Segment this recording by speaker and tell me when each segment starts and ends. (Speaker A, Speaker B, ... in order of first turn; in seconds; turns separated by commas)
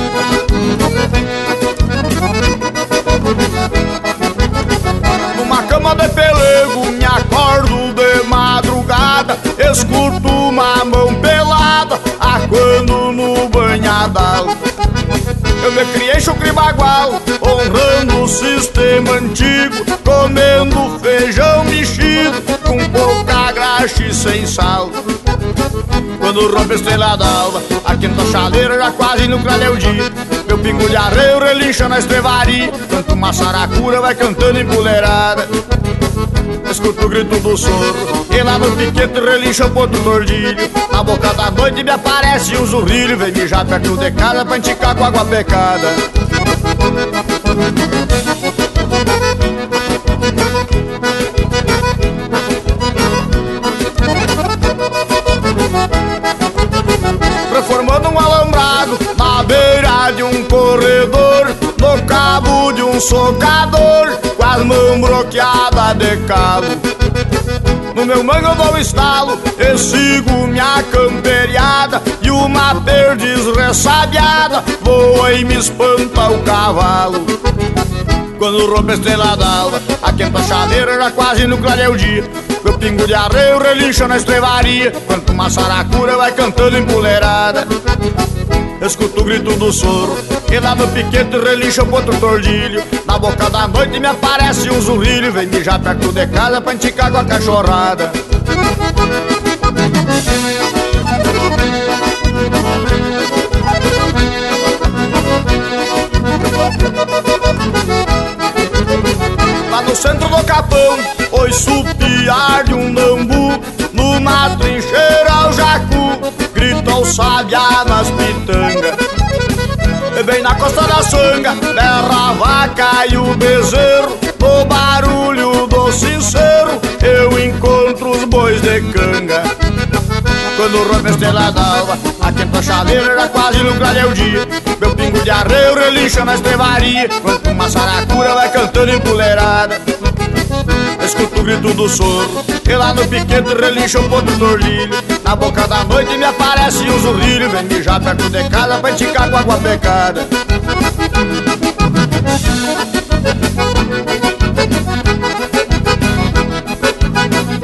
Speaker A: 5.3-14.5, Speaker A: 15.6-24.9, Speaker A: 26.2-35.5, Speaker A: 36.6-46.0, Speaker A: 57.5-66.8, Speaker A: 67.9-77.3, Speaker A: 78.4-87.7, Speaker A: 88.8-98.1, Speaker A: 109.7-119.0, Speaker A: 120.1-129.5, Speaker A: 130.6-139.8, Speaker A: 141.0-150.3